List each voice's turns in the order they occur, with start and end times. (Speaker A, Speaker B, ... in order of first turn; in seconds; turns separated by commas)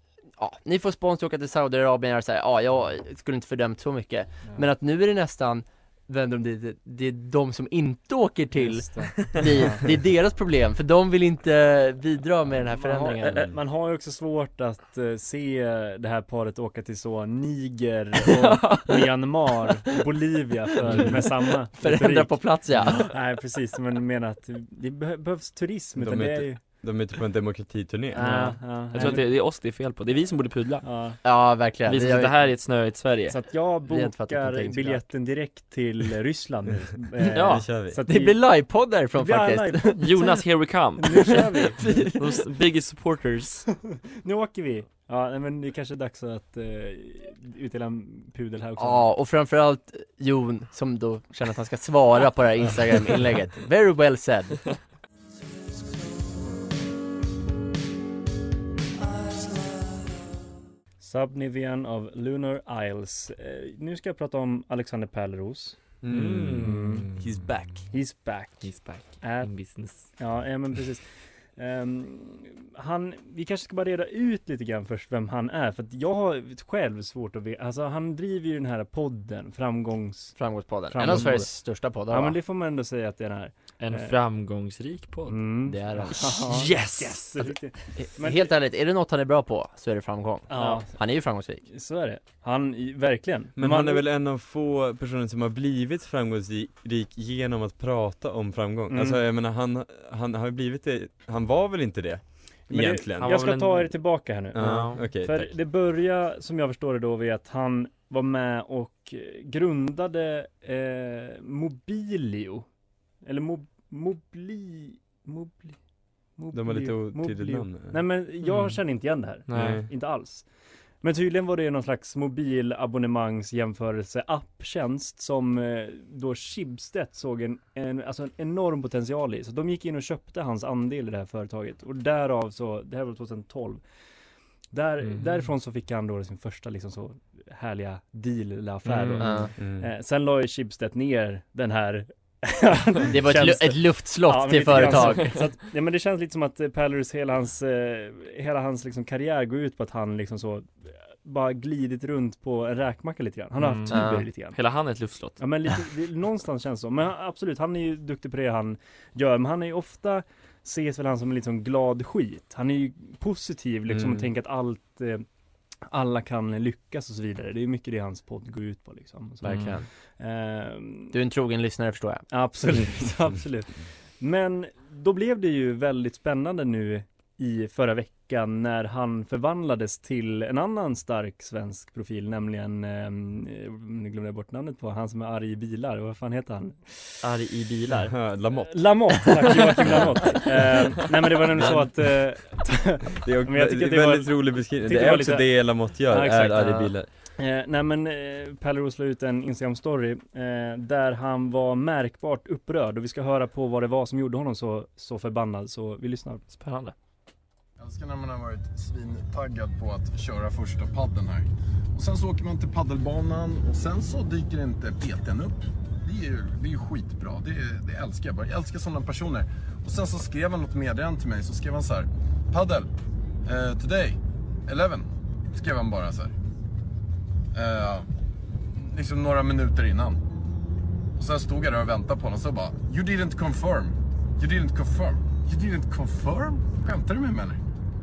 Speaker A: 0.4-13.4, Speaker B: 8.6-9.8, Speaker B: 12.9-22.6, Speaker C: 13.3-13.6, Speaker A: 18.4-19.0, Speaker A: 21.0-23.1, Speaker B: 23.1-26.6, Speaker C: 25.9-28.5, Speaker B: 28.1-29.3, Speaker D: 28.2-30.9, Speaker B: 30.8-31.2, Speaker A: 31.2-32.4, Speaker D: 31.8-33.4, Speaker B: 33.3-40.4, Speaker A: 33.8-35.0, Speaker D: 37.3-37.6, Speaker C: 37.4-38.0, Speaker A: 38.0-40.2, Speaker D: 40.0-43.6, Speaker B: 41.0-42.0, Speaker B: 44.2-49.1, Speaker A: 48.8-54.8, Speaker B: 61.0-65.8, Speaker C: 66.0-67.5, Speaker D: 66.1-67.9, Speaker B: 66.6-67.1, Speaker B: 67.9-81.5, Speaker D: 68.6-70.1, Speaker A: 80.3-82.4, Speaker B: 82.0-84.1, Speaker D: 83.8-85.5, Speaker B: 85.3-88.5, Speaker A: 85.7-86.5, Speaker D: 86.1-87.5, Speaker A: 88.0-91.6, Speaker B: 90.5-90.9, Speaker D: 90.5-90.8, Speaker B: 91.7-94.0, Speaker C: 93.5-103.3, Speaker B: 98.9-99.2, Speaker B: 102.7-112.7, Speaker D: 103.2-105.0, Speaker C: 104.5-105.6, Speaker B: 113.2-115.8, Speaker B: 116.3-120.5, Speaker C: 116.5-118.0, Speaker D: 118.4-118.8, Speaker D: 119.5-119.8, Speaker C: 119.5-119.9, Speaker B: 121.0-133.8, Speaker B: 134.7-154.6, Speaker D: 135.0-135.5, Speaker D: 138.8-139.3, Speaker A: 139.2-139.5, Speaker C: 139.6-139.9, Speaker A: 143.1-145.4, Speaker D: 153.6-153.9, Speaker A: 153.9-154.2, Speaker D: 154.5-155.4, Speaker B: 155.4-165.2, Speaker C: 163.9-164.3, Speaker B: 165.9-171.1, Speaker A: 169.4-169.9, Speaker D: 169.4-169.7, Speaker A: 171.1-172.2, Speaker B: 172.3-187.1, Speaker D: 187.2-188.1, Speaker C: 187.9-190.4, Speaker B: 188.6-206.4, Speaker C: 191.6-191.8, Speaker C: 193.2-197.1, Speaker D: 206.5-206.9, Speaker E: 207.8-222.9, Speaker E: 223.4-226.3, Speaker E: 227.5-228.1, Speaker E: 228.7-230.2, Speaker E: 231.2-237.6